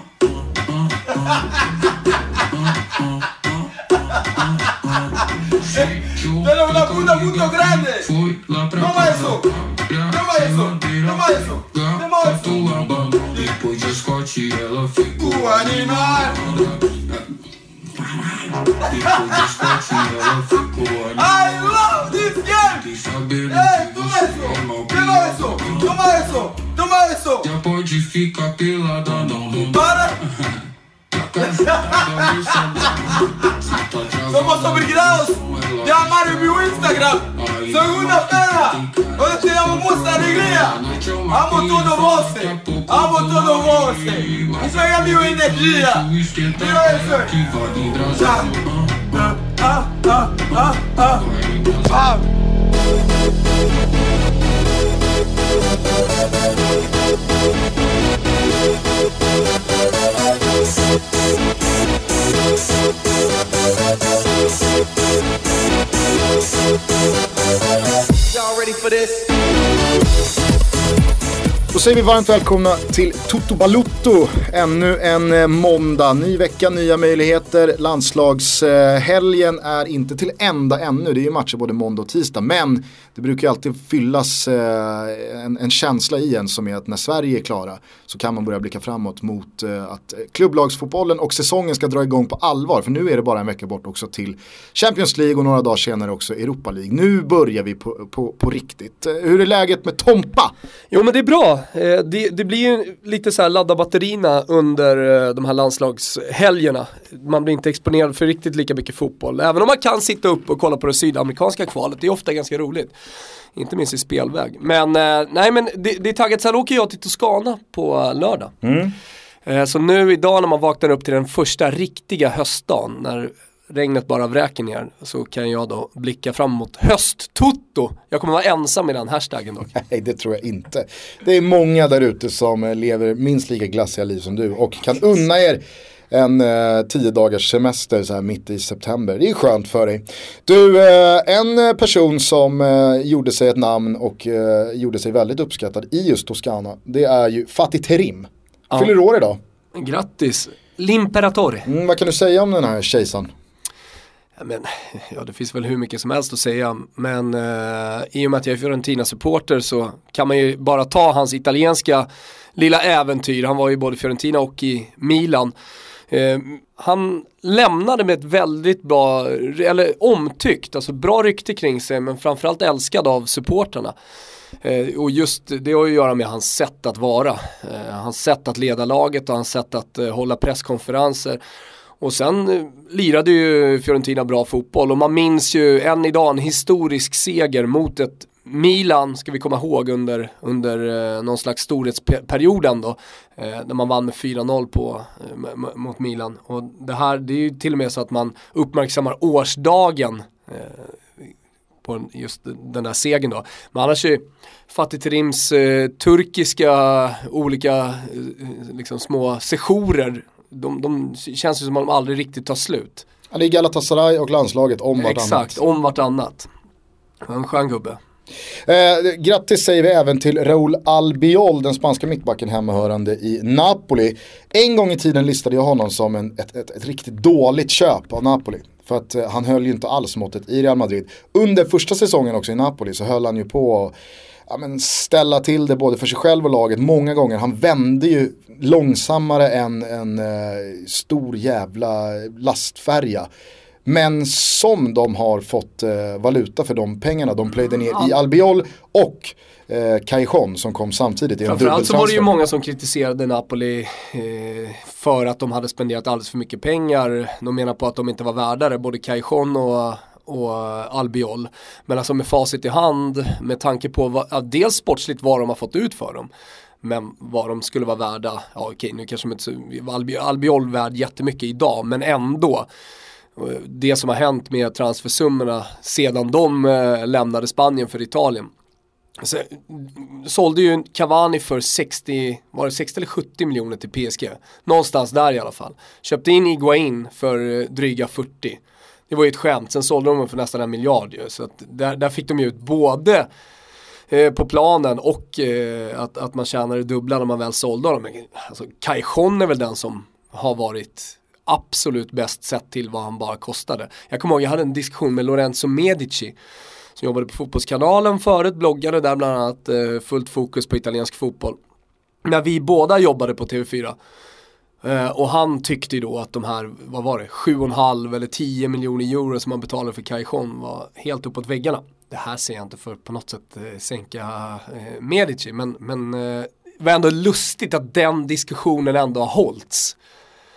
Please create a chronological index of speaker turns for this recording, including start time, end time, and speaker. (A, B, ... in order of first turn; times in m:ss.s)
0:00.8-0:01.6 A
0:02.4-0:03.3 A
0:04.3-0:17.2 A
0:06.4-0:08.1 B
0:08.8-0:09.5 B
0:10.1-0:12.7 B
0:15.2-0:16.6 B
0:17.9-0:21.7 A
0:19.1-0:19.8 B
0:21.2-0:22.8 B
0:22.6-0:26.0 A
0:23.5-0:27.5 B
0:27.4-0:30.6 A
0:29.7-0:30.2 B
0:31.1-0:49.3 A
0:31.5-0:33.2 B
0:34.3-0:47.4 B
0:48.1-0:48.5 B
0:49.1-0:51.2 B
0:51.0-0:52.1 A
0:51.9-0:52.2 B
1:08.3-1:09.3 B
1:11.7-1:40.5 C
1:40.9-1:52.9 D
1:53.5-1:58.5 D
1:58.6-1:58.9 C
1:59.4-2:09.7 D
2:09.7-2:29.4 C
2:29.7-2:31.7 D
2:31.6-2:33.3 C
2:34.4-2:45.5 D
2:46.1-2:53.9 D
2:54.6-3:01.4 D
3:02.0-3:21.3 D
3:21.8-3:33.0 D
3:33.3-3:35.6 C
3:35.0-3:36.5 D
3:37.2-3:38.0 D
3:38.6-3:53.9 C
3:54.5-4:03.3 C
4:03.8-4:12.3 C
4:11.5-4:26.3 D
4:26.8-4:32.7 D
4:33.4-4:38.5 D
4:39.2-4:53.3 D
4:54.1-5:06.3 D
5:07.0-5:11.6 D
5:12.2-5:14.0 D
5:14.8-5:30.0 D